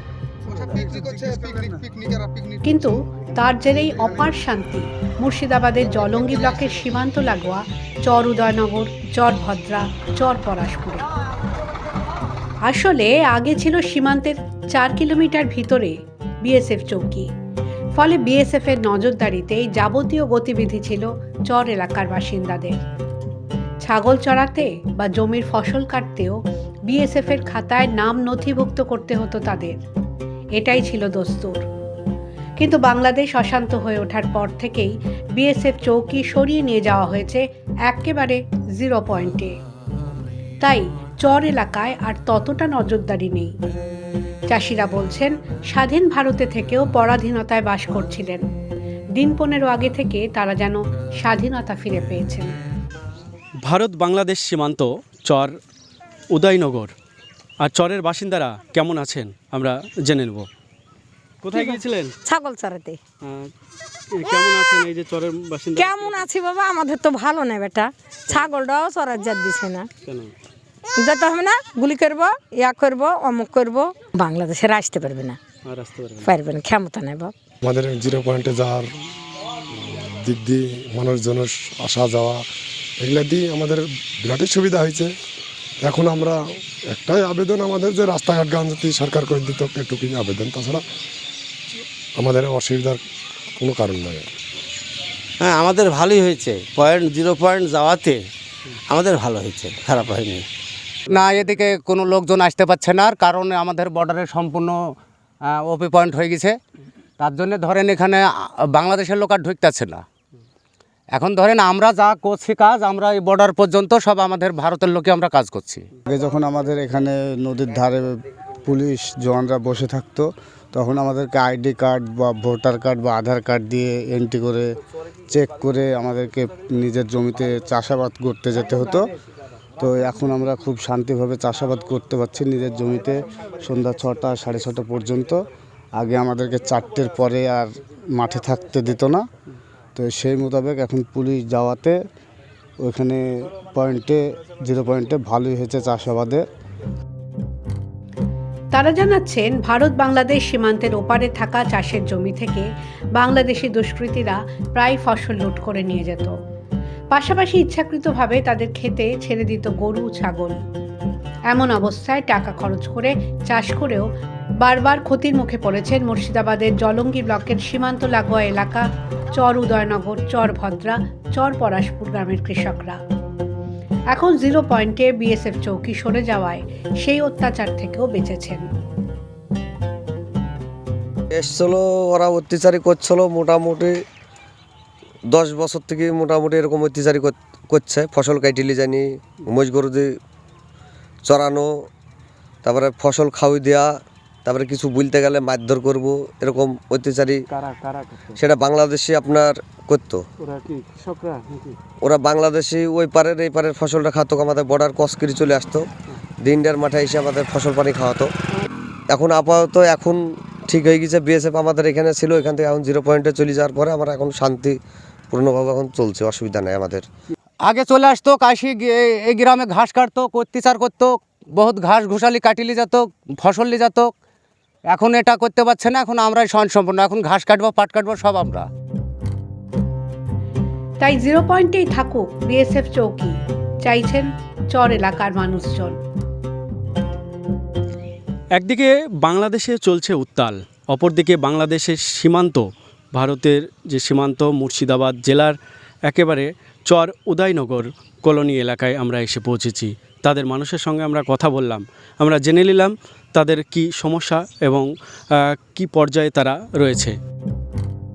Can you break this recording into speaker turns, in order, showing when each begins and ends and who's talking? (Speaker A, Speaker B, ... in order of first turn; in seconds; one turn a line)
Speaker A: 2.6-11.1
Speaker A: 12.6-17.3
Speaker A: 18.0-22.8
Speaker A: 23.8-29.8
Speaker A: 30.6-31.6
Speaker A: 32.6-39.6
Speaker A: 40.6-43.5
Speaker A: 44.5-48.4
Speaker A: 49.2-52.5
Speaker B: 53.6-55.5
Speaker B: 56.3-56.9
Speaker B: 57.6-60.5
Speaker B: 61.4-62.2
Speaker C: 62.3-63.0
Speaker B: 64.1-66.2
Speaker C: 65.8-69.8
Speaker B: 70.1-70.3
Speaker C: 71.0-75.4
Speaker B: 75.7-76.3
Speaker C: 76.3-77.3
Speaker D: 77.6-78.9
Speaker D: 79.8-82.4
Speaker D: 83.0-85.1
Speaker D: 85.8-86.4
Speaker D: 86.9-90.8
Speaker D: 92.2-93.0
Speaker D: 93.6-94.3
Speaker E: 95.4-98.2
Speaker E: 98.9-100.5
Speaker F: 101.1-104.8
Speaker F: 105.5-106.5
Speaker F: 107.2-110.0
Speaker F: 111.2-115.8
Speaker G: 116.1-124.7
Speaker G: 125.3-129.1
Speaker G: 129.8-135.4
Speaker G: 136.0-139.2
Speaker G: 139.9-142.0
Speaker G: 142.8-146.4
Speaker A: 148.7-156.3
Speaker A: 157.1-160.6
Speaker A: 161.5-164.1
Speaker A: 164.6-173.0
Speaker A: 174.1-178.7
Speaker H: 181.3-184.0
Speaker H: 185.3-190.1
Speaker H: 191.3-191.8
Speaker H: 192.6-197.4
Speaker B: 197.6-198.3
Speaker H: 198.4-200.2
Speaker B: 200.4-201.7
Speaker H: 202.0-205.9
Speaker H: 206.4-208.3
Speaker H: 209.1-214.8
Speaker H: 215.3-217.1
Speaker F: 217.7-224.1
Speaker F: 224.9-228.7
Speaker A: 231.0-236.0
Speaker B: 238.6-245.6
Speaker B: 246.1-254.9
Speaker B: 255.7-257.1